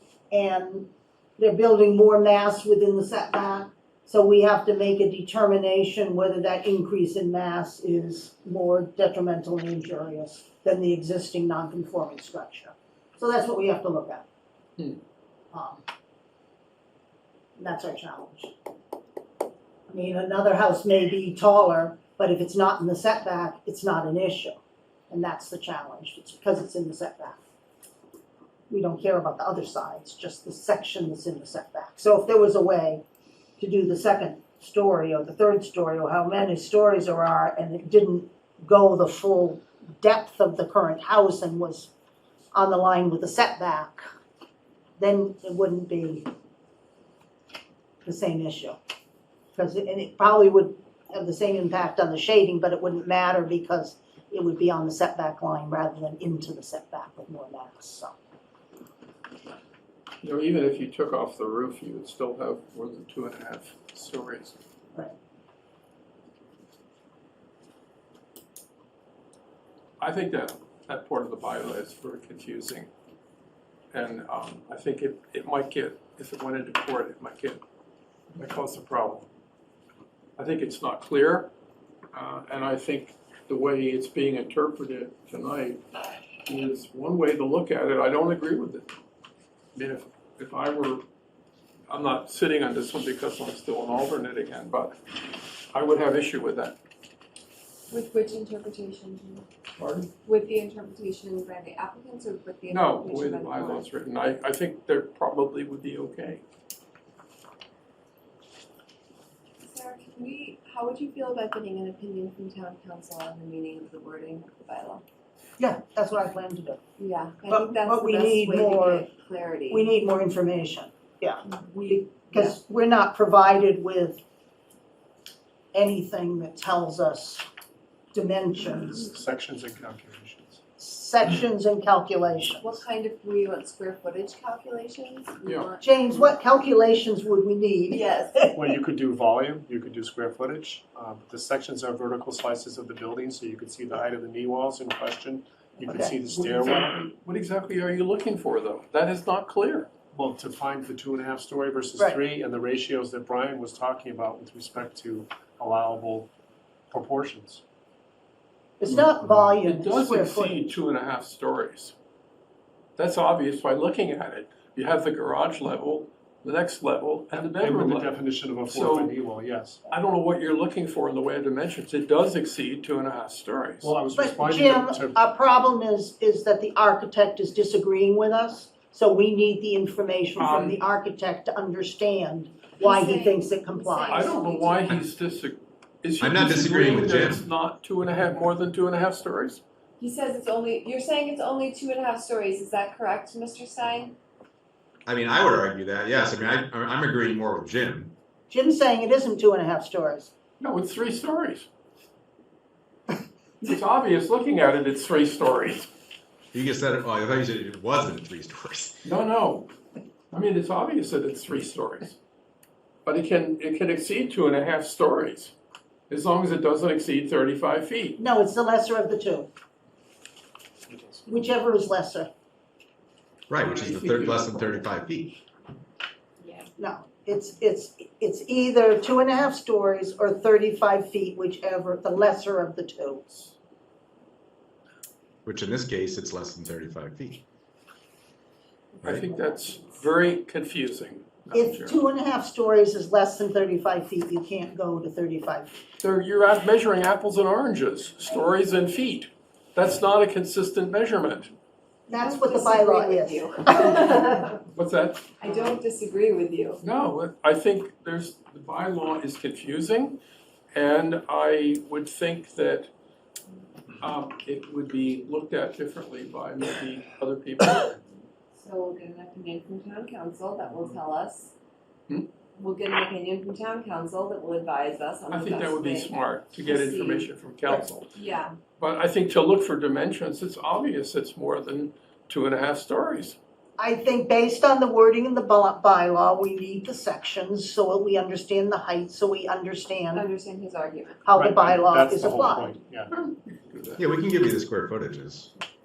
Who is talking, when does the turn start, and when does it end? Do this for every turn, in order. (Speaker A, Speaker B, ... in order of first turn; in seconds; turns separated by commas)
Speaker A: 0.3-14.2, Speaker A: 15.5-15.8, Speaker A: 17.6-18.5, Speaker A: 19.9-24.6, Speaker A: 25.1-27.4, Speaker A: 28.7-33.0, Speaker A: 33.6-41.9, Speaker A: 42.5-44.1, Speaker A: 45.0-46.3, Speaker A: 48.0-48.8, Speaker A: 49.5-58.1, Speaker B: 60.2-64.5, Speaker B: 70.0-72.9, Speaker B: 73.9-77.6, Speaker B: 78.3-79.3, Speaker B: 80.4-81.5, Speaker B: 82.1-85.8, Speaker B: 86.4-88.9, Speaker B: 89.7-91.0, Speaker B: 91.9-96.8, Speaker C: 97.9-99.5, Speaker B: 99.8-100.1, Speaker C: 100.2-103.8, Speaker B: 102.7-106.4, Speaker C: 109.6-115.0, Speaker A: 115.6-116.8, Speaker C: 117.0-119.9, Speaker A: 117.5-119.0, Speaker A: 119.7-124.2, Speaker C: 121.5-122.5, Speaker A: 125.7-127.4, Speaker A: 128.1-129.1, Speaker D: 129.0-130.6, Speaker A: 130.8-132.7, Speaker C: 132.6-135.9, Speaker B: 135.4-135.7, Speaker A: 135.8-138.5, Speaker C: 137.9-138.5, Speaker D: 138.5-147.1, Speaker A: 145.8-146.2, Speaker B: 146.3-149.9, Speaker D: 150.1-156.3, Speaker D: 156.9-157.6, Speaker A: 158.8-160.7, Speaker D: 159.2-159.5, Speaker B: 159.6-161.9, Speaker B: 163.0-168.1, Speaker D: 167.3-169.8, Speaker B: 168.7-169.1, Speaker B: 169.9-173.9, Speaker D: 173.8-175.2, Speaker A: 174.1-184.4, Speaker B: 180.4-180.8, Speaker C: 182.8-184.9, Speaker B: 184.1-189.6, Speaker E: 186.2-187.4, Speaker C: 190.0-194.1, Speaker E: 195.1-198.1, Speaker A: 198.5-200.3, Speaker B: 200.6-201.7, Speaker B: 203.6-205.9, Speaker E: 206.5-209.0, Speaker B: 209.0-209.7, Speaker B: 210.3-212.2, Speaker B: 213.0-215.5, Speaker B: 216.1-218.2, Speaker A: 218.2-219.5, Speaker D: 220.9-221.2, Speaker A: 221.2-222.3, Speaker E: 223.5-225.4, Speaker B: 223.6-224.9, Speaker C: 226.4-226.7, Speaker A: 226.8-233.5, Speaker E: 235.4-237.4, Speaker C: 238.9-240.0, Speaker E: 239.0-239.3, Speaker B: 239.0-242.0, Speaker A: 241.5-245.7, Speaker B: 246.0-251.5, Speaker A: 252.1-254.3, Speaker C: 252.1-254.6, Speaker B: 254.7-255.8, Speaker C: 255.4-256.8, Speaker B: 256.8-260.2, Speaker B: 260.7-262.9, Speaker B: 264.0-268.0, Speaker C: 268.5-271.5, Speaker C: 272.6-277.3, Speaker B: 275.3-278.1, Speaker C: 278.1-278.6, Speaker B: 278.8-283.4, Speaker A: 283.8-290.2, Speaker C: 290.1-291.2, Speaker A: 291.2-292.7, Speaker D: 291.3-293.1, Speaker B: 293.1-294.1, Speaker E: 294.0-295.5